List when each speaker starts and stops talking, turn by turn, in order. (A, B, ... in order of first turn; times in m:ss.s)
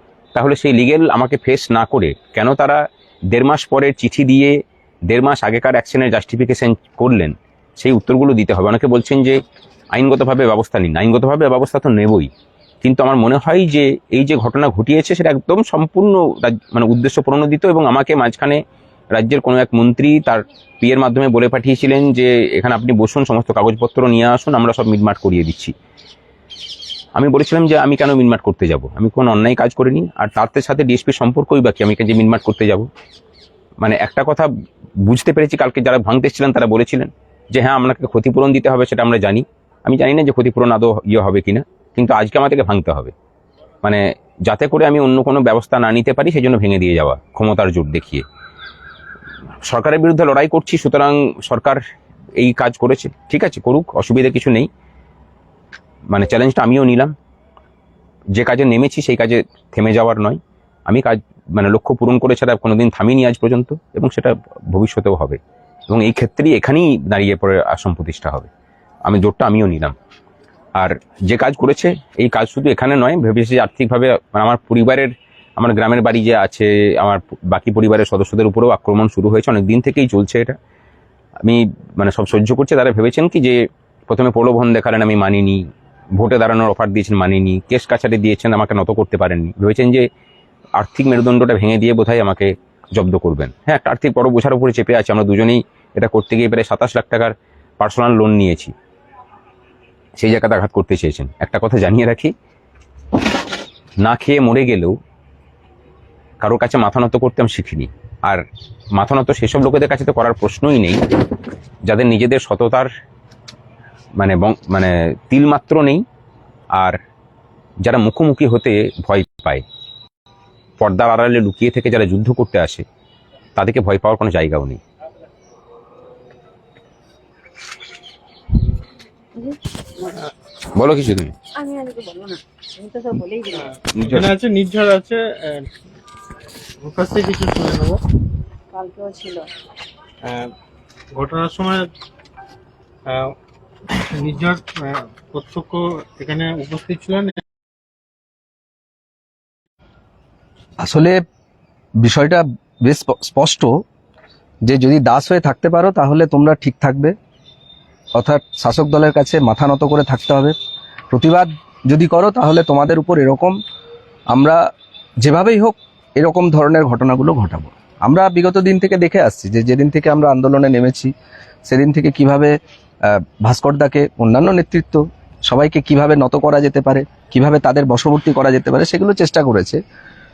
0:00.3-0:02.8 A
0:03.3-0:04.5 A
0:05.1-0:09.4 A
0:09.9-0:12.3 A
0:12.8-0:18.6 A
0:19.1-0:25.7 A
0:27.2-0:32.9 A
0:33.8-0:34.5 A
0:35.0-0:43.1 A
0:43.8-0:48.2 A
0:49.7-0:51.8 A
0:52.4-0:54.7 A
0:56.1-0:57.1 A
0:58.4-1:08.5 A
1:09.1-1:10.0 A
1:10.8-1:20.6 A
1:21.4-1:23.6 A
1:24.1-1:25.6 A
1:26.2-1:30.1 A
1:30.8-1:38.7 A
1:40.2-1:42.3 A
1:44.0-1:45.0 A
1:46.4-1:48.4 A
1:49.0-1:51.0 A
1:51.9-1:52.9 A
1:54.2-1:56.0 A
1:57.8-1:59.6 A
2:00.8-2:02.8 A
2:03.6-2:04.8 A
2:09.4-2:10.2 B
2:10.8-2:11.3 A
2:11.6-2:13.7 B
2:13.5-2:15.7 C
2:13.9-2:14.3 A
2:16.8-2:18.0 C
2:18.7-2:19.5 B
2:20.2-2:20.5 C
2:21.2-2:21.9 C
2:23.1-2:23.3 C
2:24.0-2:27.4 C
2:30.8-2:31.2 D
2:32.0-2:33.7 D
2:34.7-2:37.1 D
2:38.2-2:40.6 D
2:41.1-2:43.6 D
2:44.3-2:44.6 D
2:45.2-2:51.1 D
2:51.7-2:52.5 D
2:53.1-2:59.8 D